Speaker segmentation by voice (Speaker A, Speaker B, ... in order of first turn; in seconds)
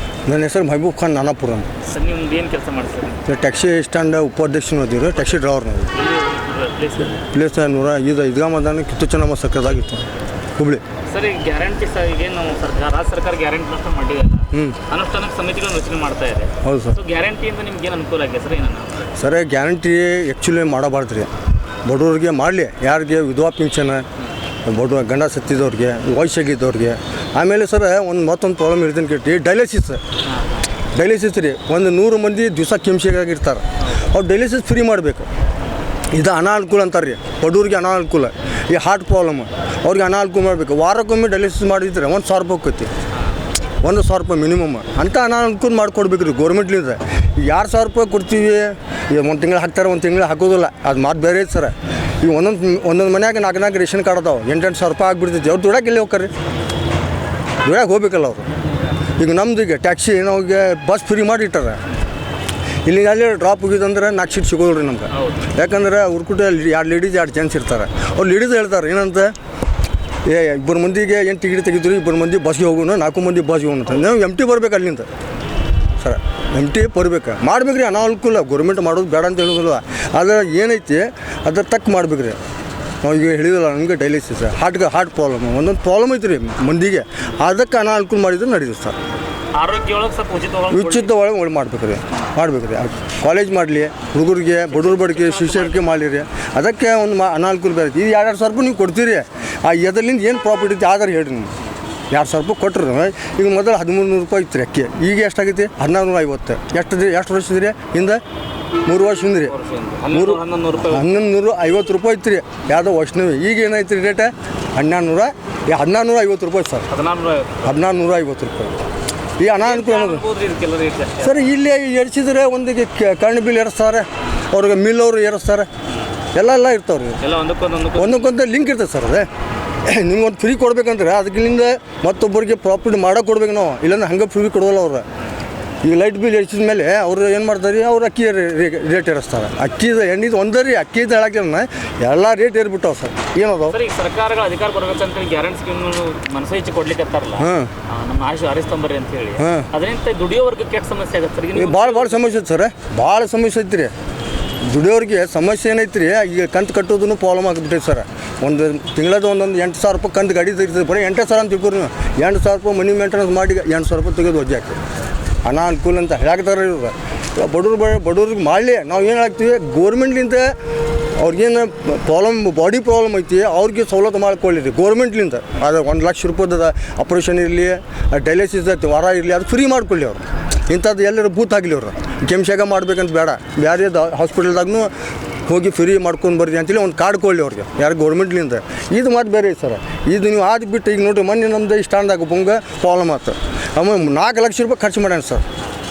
Speaker A: 0.3-1.7, 3.3-5.9, 7.2-10.8, 16.6-17.0, 19.2-21.3, 21.9-24.1, 24.6-30.0, 30.9-35.3, 36.1-42.9, 43.8-56.3, 57.6-58.5, 59.2-61.8, 62.9-69.3, 70.2-75.1, 76.0-82.4, 83.0-89.0, 90.7-101.5, 102.1-108.2, 108.9-109.5, 110.1-116.9, 117.6-118.8, 119.4-120.2, 121.2-125.7, 126.3-127.2, 128.0-129.3, 129.8-135.0, 135.8-143.8, 147.4-147.7, 149.4-149.7, 151.5-153.9, 154.6-164.8, 165.4-170.6, 171.2-184.9, 185.5-195.4
Speaker B: 1.8-3.2, 5.9-7.3, 11.1-19.0, 30.3-30.6, 65.1-65.4, 89.5-91.1, 94.7-95.9, 109.5-111.1, 116.9-117.6, 119.6-121.4, 127.2-128.2, 143.7-152.2